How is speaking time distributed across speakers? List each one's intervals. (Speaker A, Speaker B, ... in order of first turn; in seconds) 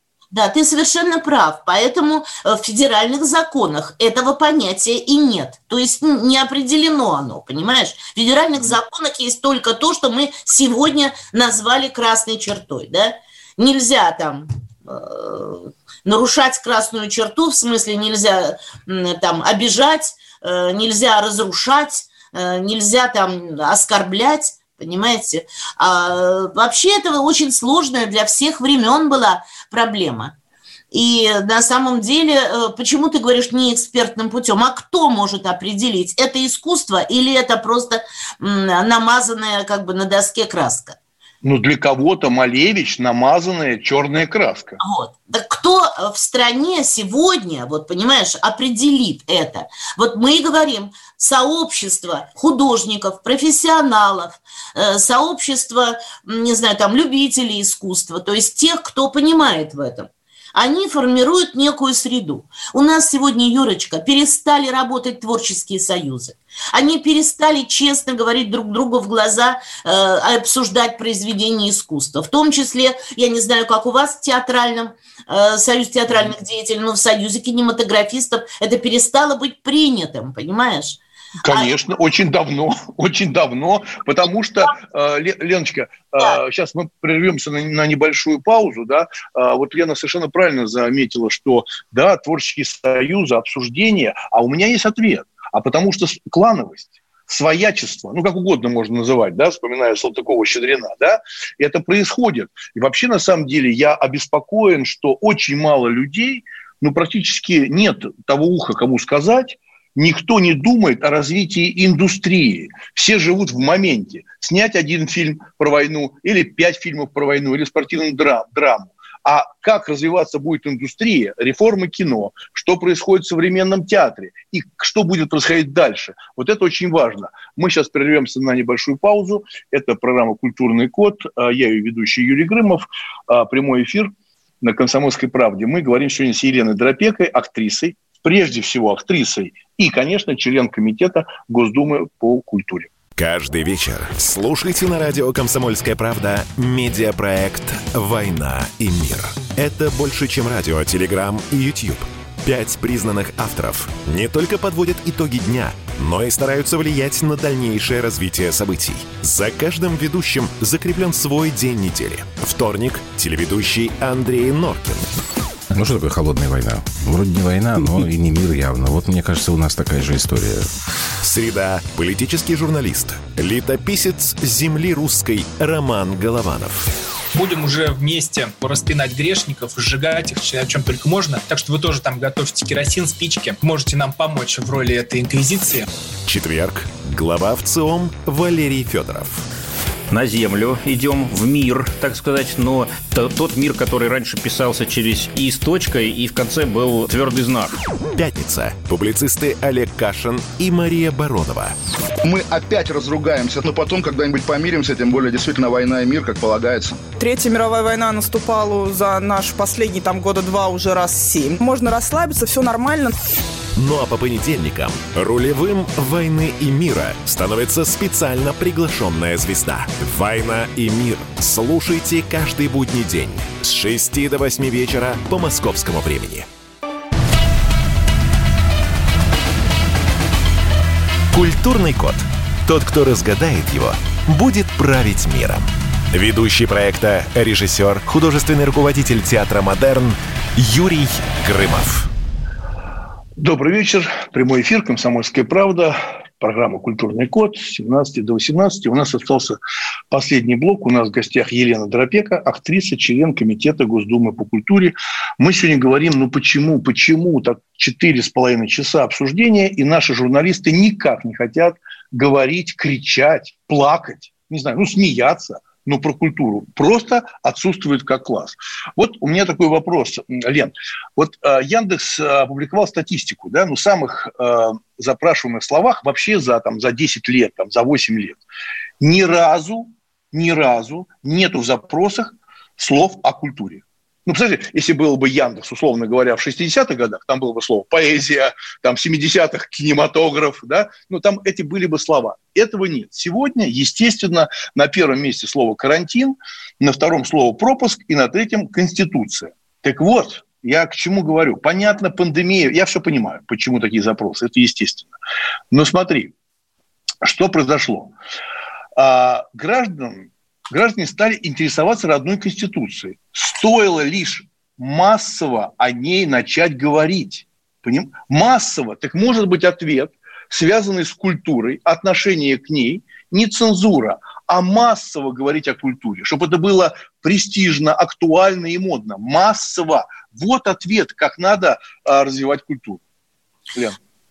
Speaker A: 0.3-30.3, 30.9-41.0, 44.8-81.7
Speaker B: 41.4-44.8, 81.4-142.9, 243.4-249.6, 250.1-278.4, 279.0-305.1, 305.7-306.3, 307.2-308.1, 308.9-333.0
Speaker C: 143.2-165.1, 171.2-176.9, 186.3-189.4, 198.1-201.7, 213.8-226.5, 231.3-242.1
Speaker D: 165.7-170.7
Speaker E: 177.3-185.9
Speaker F: 190.1-197.7
Speaker G: 202.2-207.0
Speaker H: 207.2-213.1